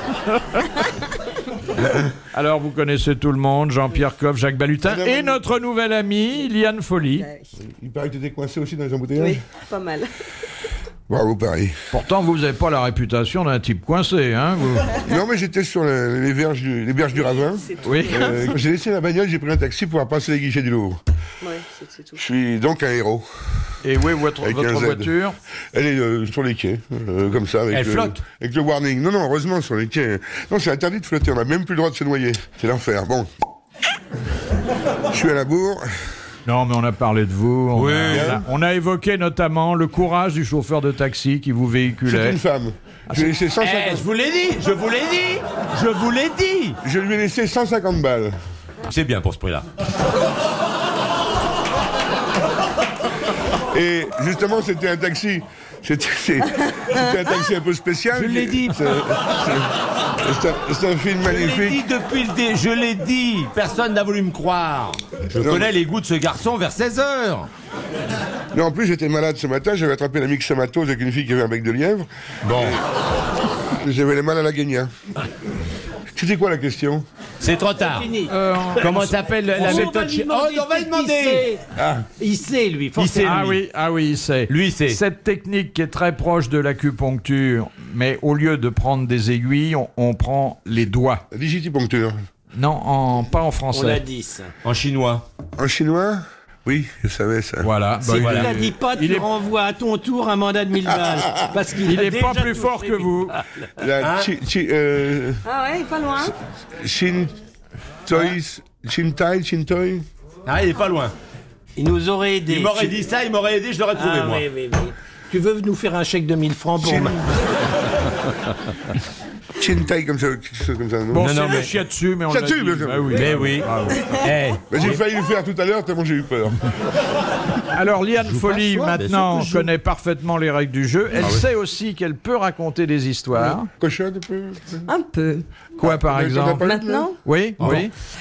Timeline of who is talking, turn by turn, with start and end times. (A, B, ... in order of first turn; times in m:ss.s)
0:00.3-0:00.7 A
0:02.3-0:07.3 A
0:04.8-0:05.4 B
0:07.2-0:07.5 C
0:07.6-0:09.4 B
0:09.2-0:10.1 C
0:11.1-0:11.8 B
0:11.9-0:15.0 A
0:15.0-0:21.0 B
0:17.2-0:18.6 C
0:17.8-0:18.4 A
0:21.4-0:22.2 C
0:22.2-0:23.3 B
0:23.8-0:25.4 A
0:24.4-0:25.1 B
0:25.7-0:33.3 B
0:27.7-0:28.2 D
0:35.1-0:35.9 B
0:36.5-0:42.4 A
0:37.7-0:38.4 D
0:38.1-0:38.4 B
0:42.1-0:44.0 B
0:43.1-0:43.4 A
0:43.6-0:46.8 D
0:46.8-0:48.3 B
0:48.9-0:49.7 D
0:53.7-1:01.8 B
0:58.1-0:58.8 D
1:01.2-1:07.5 D
1:05.4-1:05.7 B
1:08.5-1:12.8 B
1:12.4-1:12.8 D
1:13.7-1:14.9 B
1:16.2-1:17.0 B
1:17.4-1:18.1 D
1:17.8-1:19.0 E
1:18.3-1:19.9 A
1:18.8-1:21.5 D
1:19.6-1:21.6 E
1:21.8-1:22.1 B
1:22.2-1:23.5 E
1:23.0-1:23.6 D
1:23.2-1:31.3 A
1:24.5-1:25.0 D
1:31.3-1:32.2 B
1:32.6-1:34.0 A
1:33.7-1:34.5 E
1:34.6-1:35.3 D
1:35.6-1:37.7 B
1:37.6-1:39.3 A
1:38.0-1:43.7 E
1:38.1-1:38.5 D
1:40.9-1:41.5 B
1:41.8-1:43.4 A
1:43.8-1:45.4 B
1:44.0-1:44.3 D
1:45.4-1:46.3 C
1:46.3-1:47.4 B
1:48.1-1:50.0 B
1:50.5-1:51.1 D
1:51.8-1:53.0 E
1:52.5-1:54.5 D
1:54.0-1:57.3 E
1:56.8-1:57.2 B
1:59.6-2:01.3 B
2:01.1-2:04.1 A
2:01.2-2:01.7 D
2:02.3-2:03.5 B
2:03.1-2:05.0 D
2:04.7-2:06.7 B
2:07.7-2:13.7 A
2:08.2-2:09.7 D
2:13.8-2:14.9 B
2:14.9-2:15.5 C
2:15.8-2:17.1 B
2:15.8-2:17.9 A
2:16.6-2:17.2 C
2:17.6-2:17.8 D